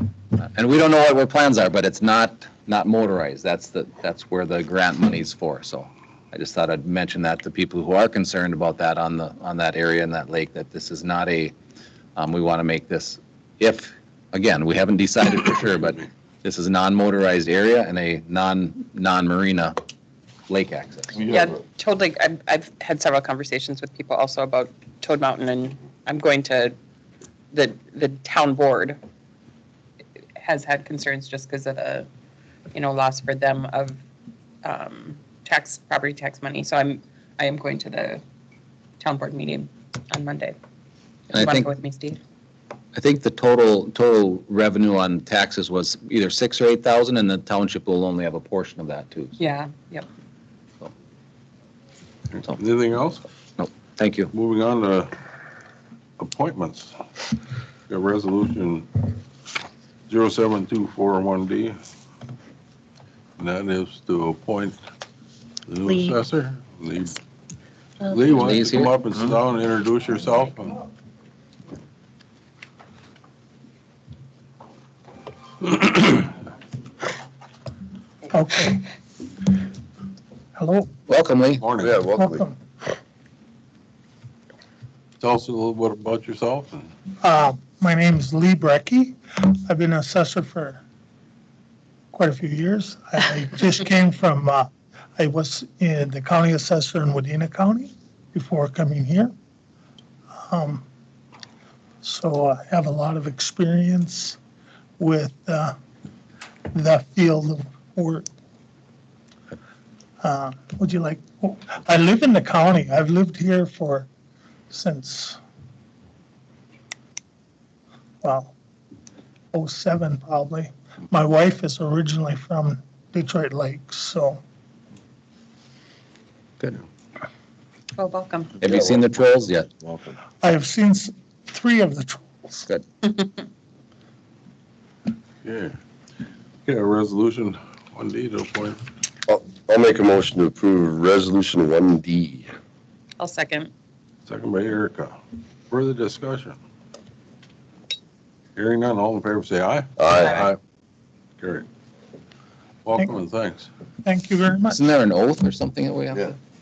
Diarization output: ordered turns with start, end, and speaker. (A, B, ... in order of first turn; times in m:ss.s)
0:00.4-0:11.6 A
0:12.2-0:19.8 A
0:20.5-0:21.3 A
0:21.3-0:26.8 B
0:27.5-0:29.0 B
0:30.4-0:32.1 B
0:32.7-0:34.0 B
0:34.6-0:38.2 B
0:39.0-0:40.6 B
0:41.3-0:41.7 A
0:41.3-0:42.2 B
0:43.0-0:49.4 A
0:49.4-0:50.1 B
0:52.4-0:53.2 C
0:53.6-0:54.3 A
0:54.3-0:55.1 C
0:56.2-0:57.0 C
0:57.9-0:59.1 C
1:00.1-1:01.8 C
1:03.4-1:04.8 C
1:05.7-1:07.2 C
1:08.1-1:10.9 C
1:08.3-1:08.9 A
1:15.7-1:16.2 C
1:18.3-1:18.9 D
1:20.6-1:20.9 D
1:21.1-1:21.6 A
1:21.6-1:22.0 C
1:21.8-1:22.4 E
1:22.2-1:22.5 D
1:25.2-1:26.9 C
1:27.2-1:30.8 D
1:32.1-1:39.3 D
1:40.5-1:40.8 D
1:42.0-1:44.4 D
1:45.0-1:45.8 D
1:46.7-1:48.3 D
1:50.2-1:54.1 D
1:54.7-1:55.4 D
1:58.2-1:58.6 D
1:59.5-2:04.4 D
2:08.0-2:08.5 B
2:08.6-2:09.7 A
2:08.6-2:09.0 E
2:10.4-2:12.6 D
2:15.4-2:15.8 C
2:16.7-2:18.8 C
2:19.3-2:22.5 E
2:23.2-2:23.7 B
2:24.3-2:25.2 C
2:25.7-2:26.6 C
2:28.6-2:30.6 C
2:30.0-2:30.5 E
2:30.2-2:30.5 B
2:31.4-2:31.7 C
2:32.8-2:33.7 C
2:34.0-2:34.8 D
2:34.7-2:36.4 A